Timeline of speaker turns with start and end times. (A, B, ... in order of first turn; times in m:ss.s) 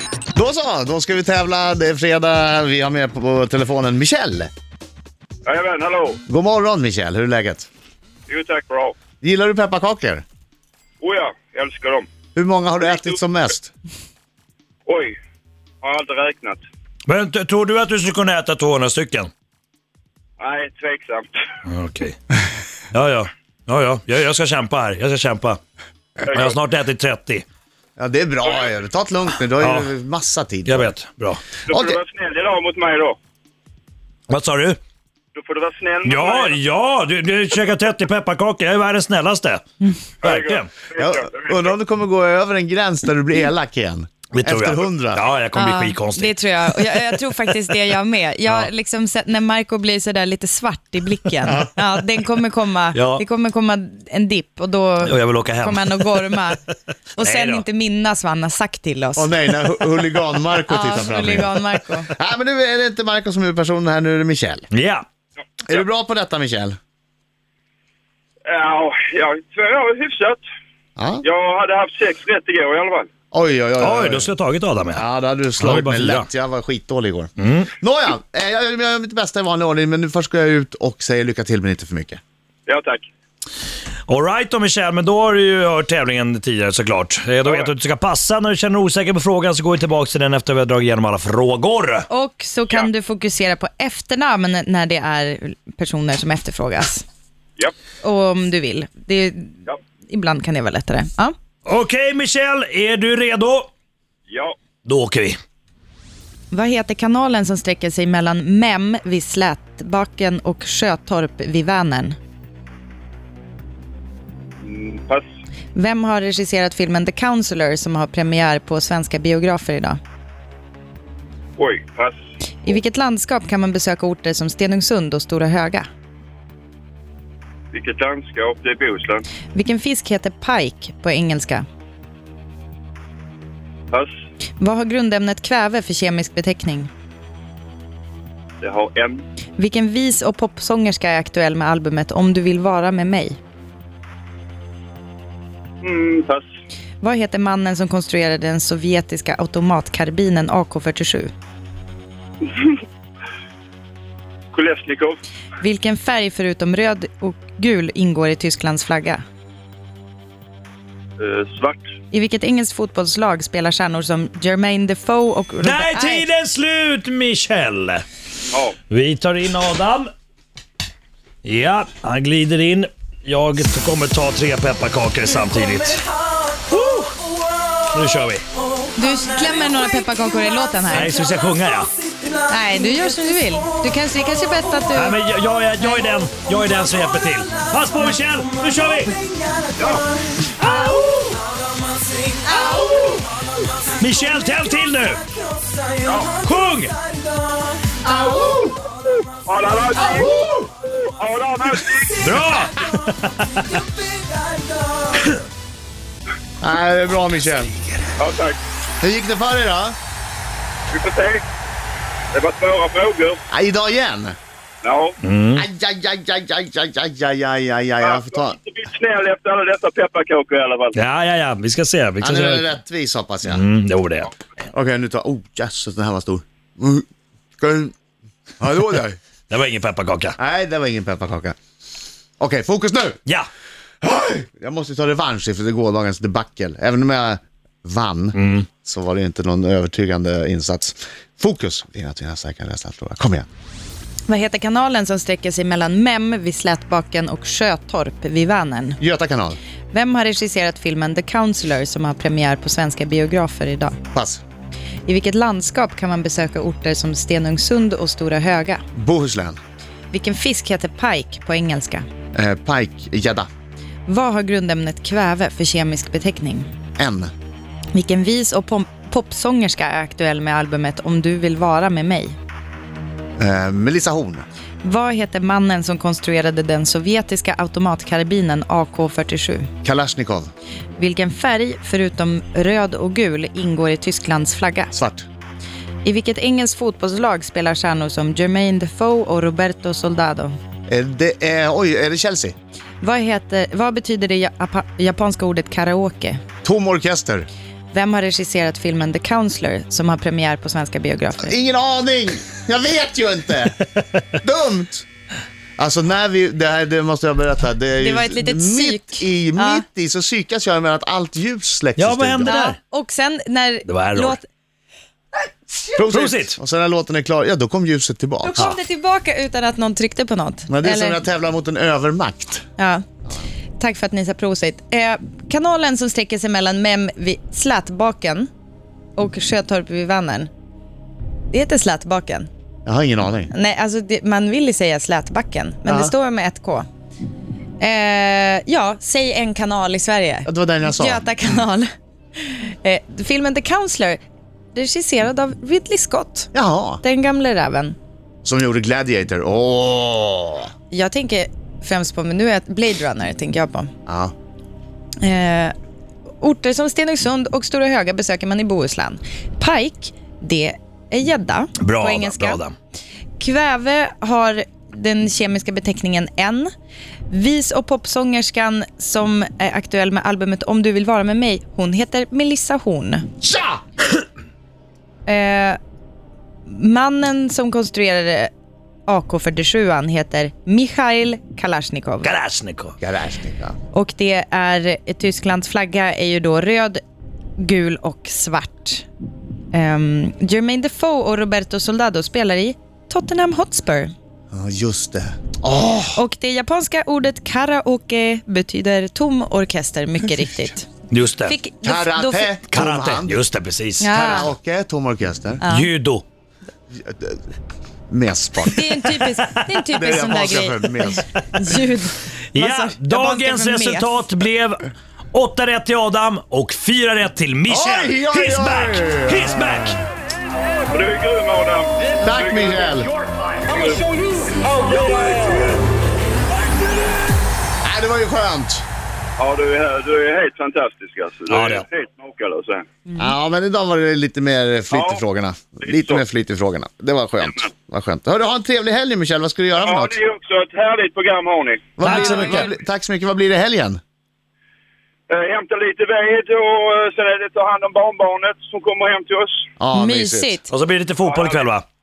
0:00.3-0:04.5 A
0:05.4-0:06.2 B
0:06.3-0:07.7 A
0:08.3-0:09.0 B
0:09.2-0:10.2 A
0:11.0-0:12.1 B
0:12.3-0:13.7 A
0:14.8-0:15.1 B
0:15.8-0:16.6 B
0:17.1-0:19.3 C
0:20.4-0:21.3 B
0:21.6-0:22.2 C
0:22.9-0:25.6 C
0:26.2-0:26.6 B
0:26.3-0:27.4 C
0:28.0-0:30.9 A
0:29.6-0:29.9 C
0:30.6-0:31.4 C
0:31.7-0:33.2 B
0:31.7-0:32.0 A
0:34.3-0:34.8 C
0:35.3-0:36.6 B
0:36.0-0:39.6 C
0:40.2-0:40.7 C
0:40.2-0:41.6 B
0:41.0-0:45.2 A
0:44.3-0:46.8 C
0:45.5-0:56.6 D
0:51.4-0:51.7 A
0:52.9-0:53.2 C
0:55.0-0:56.6 C
0:57.2-0:59.4 D
0:57.2-0:57.6 C
0:59.2-1:04.7 A
1:00.7-1:02.1 D
1:04.7-1:05.0 C
1:05.7-1:06.8 A
1:08.4-1:10.4 B
1:11.0-1:11.2 A
1:11.2-1:13.1 B
1:13.3-1:14.3 A
1:13.8-1:15.0 C
1:14.9-1:22.2 A
1:15.6-1:16.3 C
1:17.4-1:17.7 C
1:22.6-1:23.0 B
1:24.1-1:32.0 C
1:32.1-1:37.0 D
1:38.0-1:41.3 D
1:41.6-1:43.7 C
1:44.3-1:44.5 B
1:44.8-1:45.4 C
1:46.5-1:52.2 D
1:54.6-1:55.2 B
1:55.7-2:00.0 D
2:01.6-2:02.2 B
2:02.6-2:05.9 D
2:07.7-2:09.2 B
2:09.5-2:11.6 D
2:14.6-2:16.9 D
2:18.6-2:19.2 B
2:19.6-2:23.4 D
2:25.8-2:26.4 B
2:27.0-2:31.3 D
2:32.4-2:32.8 B
2:34.5-2:35.2 B
2:35.6-2:39.2 D
2:41.2-2:41.9 B
2:42.1-2:46.3 D
2:45.6-2:48.0 C
2:48.5-2:48.8 B
2:48.9-2:50.1 C
2:51.4-2:56.1 C
2:56.7-2:57.2 C
2:57.9-2:58.4 C
2:58.9-3:01.1 D
3:00.9-3:01.9 C
3:02.4-3:05.2 D
3:04.9-3:09.2 C
3:09.8-3:10.1 B
3:10.6-3:11.1 C
3:12.5-3:13.3 A
3:14.0-3:15.3 C
3:16.0-3:16.4 B
3:16.3-3:17.0 C
3:18.0-3:18.8 A
3:19.3-3:20.3 B
3:20.0-3:20.7 A
3:20.9-3:22.3 B
3:22.2-3:24.1 C
3:26.6-3:27.8 A
3:28.2-3:28.6 B
3:29.0-3:30.0 A
3:30.9-3:31.4 B
3:32.3-3:33.4 B
3:33.5-3:34.4 A
3:34.8-3:35.2 B
3:35.2-3:35.6 C
3:35.5-3:38.6 A
3:38.0-3:41.0 B
3:40.9-3:42.7 C
3:42.2-3:43.6 A
3:43.4-3:44.3 C
3:44.7-3:47.0 A
3:47.6-3:47.9 A
3:48.6-3:49.2 A
3:49.5-3:50.4 C
3:50.4-3:51.6 A
3:52.4-3:53.2 A
3:54.0-4:03.5 A
3:58.3-3:58.7 C
4:04.3-4:09.0 D
4:09.0-4:09.6 A
4:09.9-4:14.0 D
4:14.1-4:14.4 A
4:15.1-4:18.8 D
4:18.9-4:19.6 A
4:20.1-4:22.0 D
4:22.3-4:23.5 A
4:24.1-4:26.7 D
4:27.0-4:27.3 A
4:27.9-4:32.3 D
4:33.4-4:34.4 A
4:34.8-4:39.7 D
4:39.8-4:40.5 A
4:41.0-4:44.9 D
4:44.9-4:45.2 A
4:46.0-4:50.6 D
4:50.9-4:52.6 A
4:53.0-4:56.4 D
4:56.6-4:57.5 A
4:57.9-5:01.5 D
5:01.4-5:03.8 A
5:04.3-5:05.1 A
5:05.8-5:12.5 A
5:08.0-5:09.8 D
5:12.0-5:12.8 C
5:12.4-5:14.4 D
5:13.8-5:14.4 C
5:15.9-5:18.7 A
5:16.1-5:16.6 C
5:18.4-5:21.2 D
5:20.7-5:22.6 A
5:22.8-5:23.1 D
5:23.8-5:28.5 D
5:29.2-5:30.5 D
5:31.5-5:32.5 D
5:32.8-5:33.5 A
5:33.5-5:36.8 D
5:35.8-5:36.1 A
5:37.8-5:44.2 D
5:40.4-5:41.3 A
5:44.7-5:46.5 D
5:46.5-5:47.0 A
5:47.0-5:48.0 D
5:48.4-5:50.7 A
5:50.9-5:53.9 D
5:54.1-5:54.3 A
5:55.2-5:55.7 D
5:56.4-6:02.6 D
6:01.8-6:02.7 C
6:03.4-6:06.7 D
6:07.3-6:13.3 D
6:13.5-6:13.8 A
6:15.2-6:15.8 D
6:16.6-6:18.5 D
6:19.1-6:22.3 D
6:22.2-6:23.0 C
6:23.0-6:23.8 A
6:23.9-6:27.0 D
6:27.6-6:29.0 D
6:29.7-6:34.1 D
6:34.5-6:36.2 A
6:36.1-6:40.9 D
6:41.1-6:41.6 C
6:41.4-6:42.5 D
6:41.8-6:43.4 A
6:42.7-6:44.1 C
6:44.0-6:44.5 D
6:44.1-6:45.6 A
6:45.6-6:45.9 D
6:45.7-6:46.2 C
6:46.9-6:47.4 A
6:48.1-6:48.8 A
6:48.6-6:51.0 D
6:49.2-6:49.6 C
6:49.9-6:51.2 A
6:51.5-6:54.3 D
6:52.5-7:00.0 C
6:57.7-6:59.5 A
7:00.9-7:02.9 B
7:02.2-7:03.1 A
7:03.6-7:04.1 B
7:04.6-7:05.7 B
7:07.8-7:08.8 A
7:09.4-7:12.8 B
7:11.5-7:11.8 A
7:13.2-7:20.2 A
7:14.9-7:15.2 B
7:15.8-7:16.2 B
7:19.8-7:21.9 B
7:22.0-7:24.0 A
7:22.0-7:22.7 C
7:25.3-7:29.6 B
7:29.8-7:30.6 A
7:29.9-7:30.7 D
7:30.7-7:31.8 C
7:31.2-7:31.6 B